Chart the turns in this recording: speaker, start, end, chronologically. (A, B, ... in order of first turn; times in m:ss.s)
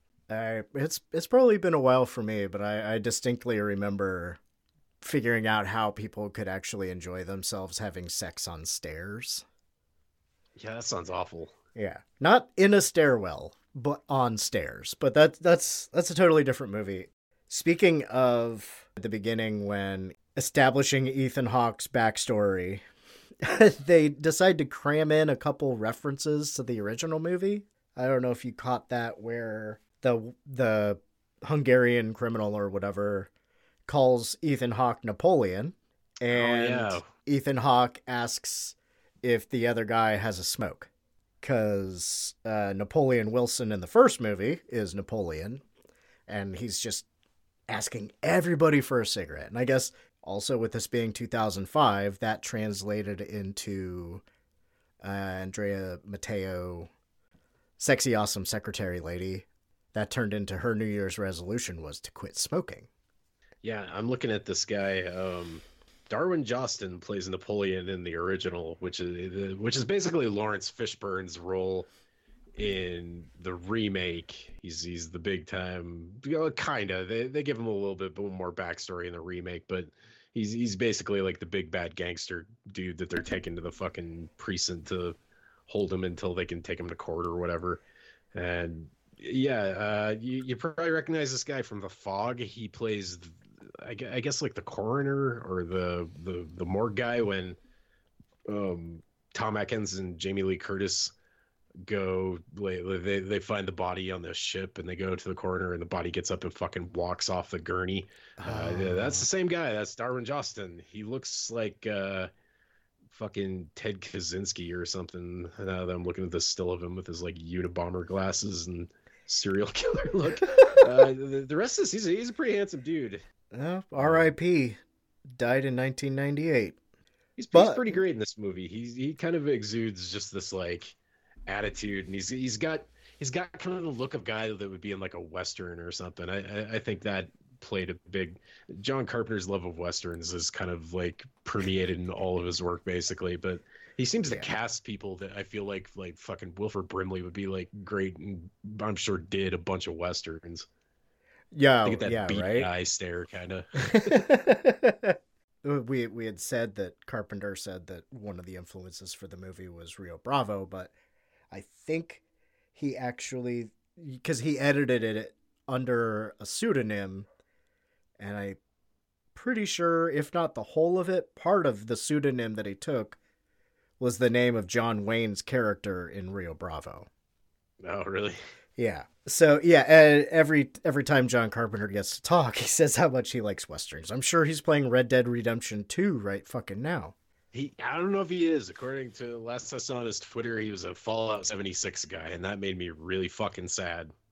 0:00.3-0:04.4 A
0:05.0-0:09.4 A
0:10.6-0:11.5 B
0:11.7-0:22.8 A
0:23.4-0:33.3 A
0:33.9-0:40.9 A
0:36.3-0:37.1 B
0:41.4-0:45.6 A
0:46.3-0:47.0 A
0:47.7-0:54.2 A
0:55.0-0:56.9 A
0:57.8-1:02.9 A
1:03.6-1:11.9 B
1:12.6-1:25.2 B
1:25.7-1:27.8 B
1:28.3-1:37.6 B
1:38.5-1:41.1 B
1:41.8-1:52.3 B
1:48.4-1:49.3 A
1:53.1-2:03.2 B
2:03.5-2:06.8 A
2:04.0-2:04.3 B
2:07.4-2:10.9 B
2:07.5-2:08.0 A
2:11.5-2:30.7 B
2:31.5-2:32.7 A
2:31.8-2:34.2 B
2:33.9-2:40.9 A
2:41.5-2:42.2 A
2:42.7-2:47.3 A
2:48.2-2:48.6 A
2:49.3-2:53.2 A
2:54.0-2:57.1 A
2:57.8-2:58.4 B
2:58.8-3:07.1 A
3:07.5-3:14.1 B